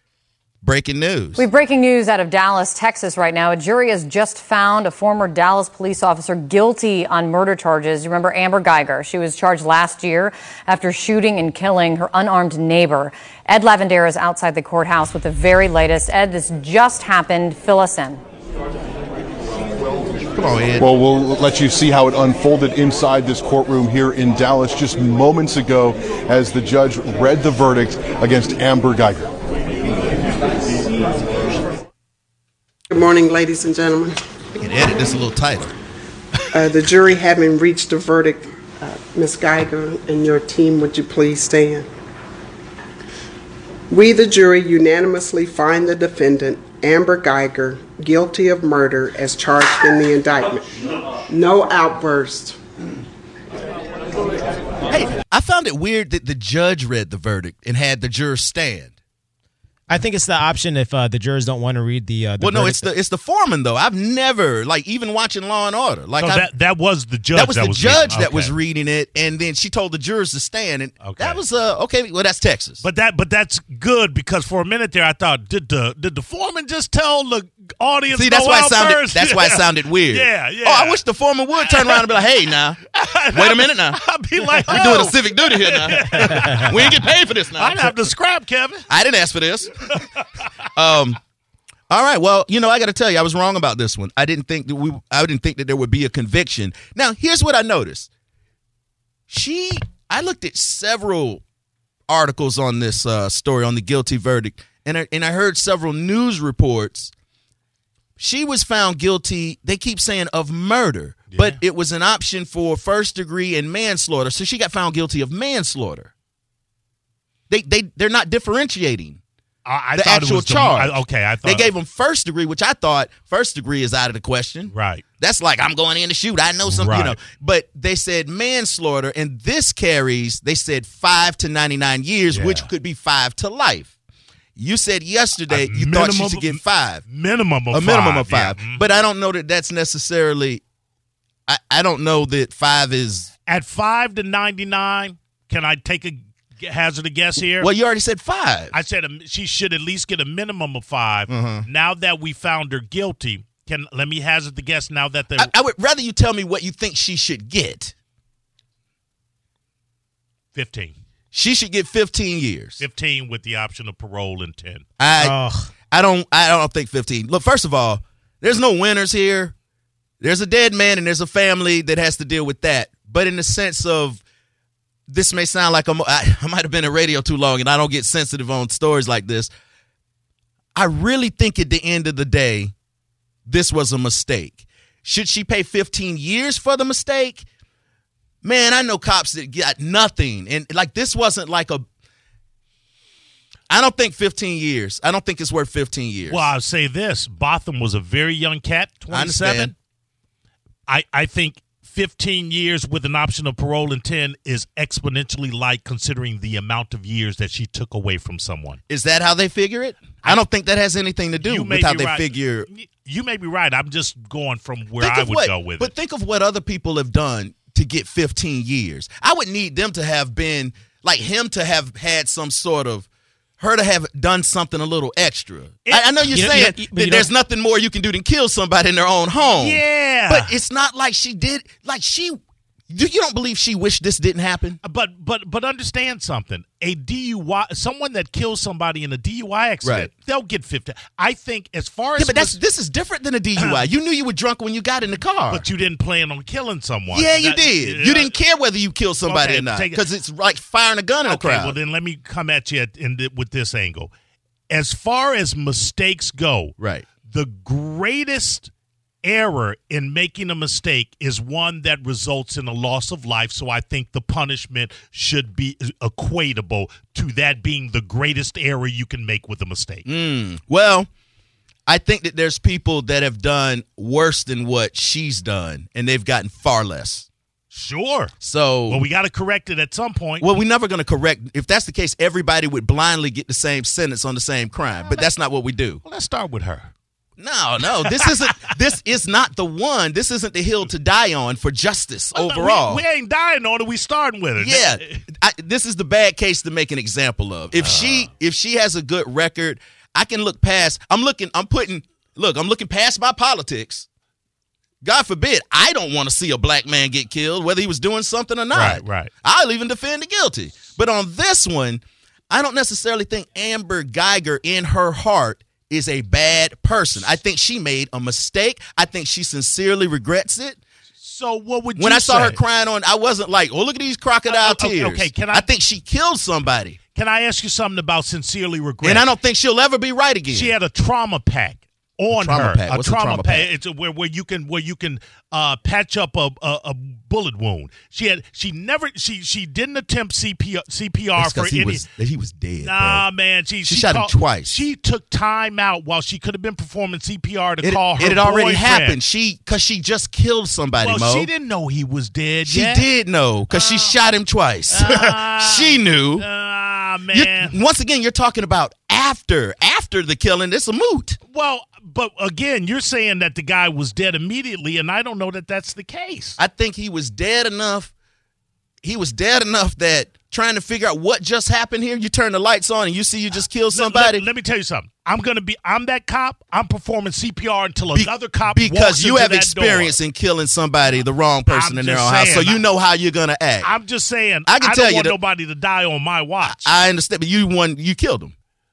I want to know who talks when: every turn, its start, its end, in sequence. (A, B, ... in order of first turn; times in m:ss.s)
0:00.6-0:01.4 A
0:01.4-0:18.2 B
0:20.4-0:20.9 A
0:20.8-0:29.3 C
0:32.9-0:34.2 D
0:34.6-0:35.7 A
0:36.5-0:41.9 D
0:43.9-0:50.7 D
0:51.3-0:52.6 D
0:54.9-0:58.9 A
0:59.9-1:02.9 E
1:02.4-1:06.5 A
1:06.2-1:08.5 F
1:07.3-1:12.8 A
1:11.0-1:11.4 F
1:12.8-1:21.0 F
1:18.1-1:22.8 A
1:21.6-1:22.1 F
1:22.9-1:28.9 F
1:23.3-1:24.0 A
1:24.6-1:24.8 E
1:24.7-1:28.0 A
1:28.9-1:29.7 A
1:30.7-1:31.2 A
1:31.9-1:38.1 A
1:39.3-1:41.4 A
1:42.1-1:47.1 A
1:48.2-1:56.1 A
1:51.3-1:51.6 F
1:57.5-1:59.2 A
1:59.6-2:01.7 F
2:00.0-2:13.9 A
2:04.7-2:05.0 F
2:06.7-2:07.2 F
2:12.3-2:12.7 F
2:14.6-2:17.0 A
2:15.5-2:18.8 F
2:17.7-2:20.6 A
2:21.5-2:23.3 A
2:23.5-2:27.7 F
2:27.6-2:28.8 A
2:28.7-2:35.5 F
2:31.3-2:31.7 A
2:35.4-2:37.9 A
2:40.5-2:40.9 F
2:41.3-2:42.8 A
2:42.8-2:44.8 F
2:45.0-2:49.5 A
2:45.2-2:45.7 E
2:50.2-2:54.2 A
2:55.1-2:59.5 A
3:00.8-3:02.7 A
3:03.5-3:07.5 A
3:08.4-3:11.8 A
3:13.7-3:16.5 A
3:16.3-3:19.7 F
3:19.1-3:19.7 A
3:20.9-3:28.8 F
3:28.9-3:32.7 A
3:31.4-3:35.9 F
3:35.0-3:43.1 A
3:43.6-3:52.4 A
3:45.9-3:46.7 F
3:46.3-3:47.3 E
3:49.4-3:50.6 F
3:52.9-3:54.8 A
3:54.8-4:02.6 F
3:59.8-4:00.1 A
4:02.2-4:05.6 A
4:05.5-4:08.4 F
4:07.1-4:11.8 A
4:09.3-4:10.0 F
4:11.2-4:14.1 F
4:14.7-4:18.7 F
4:16.8-4:17.1 A
4:19.2-4:30.0 F
4:30.0-4:31.1 A
4:31.9-4:37.3 A
4:37.7-4:38.3 F
4:38.4-4:39.0 A
4:38.9-4:40.4 F
4:40.4-4:46.0 A
4:46.0-4:46.9 F
4:47.4-4:53.0 A
4:47.8-4:48.6 F
4:52.4-4:55.2 F
4:54.6-5:04.1 A
4:57.8-4:58.3 F
5:05.0-5:20.8 A
5:08.7-5:09.3 F
5:21.2-5:22.6 F
5:22.0-5:27.0 A
5:24.5-5:25.7 F
5:27.1-5:29.3 F
5:29.0-5:30.8 A
5:30.5-5:42.1 F
5:32.3-5:33.7 A
5:41.4-5:43.2 A
5:42.8-5:49.2 F
5:43.8-5:44.8 A
5:47.8-5:51.5 A
5:51.0-5:53.1 F
5:52.6-5:56.4 A
5:53.7-5:54.2 F
5:54.9-5:57.8 F
5:57.3-6:01.4 A
6:01.5-6:06.6 F
6:06.6-6:08.1 A
6:09.0-6:14.4 A
6:13.9-6:20.2 F
6:18.1-6:23.9 A
6:21.7-6:22.8 F
6:23.8-6:26.9 F
6:24.7-6:25.4 A
6:26.6-6:28.5 A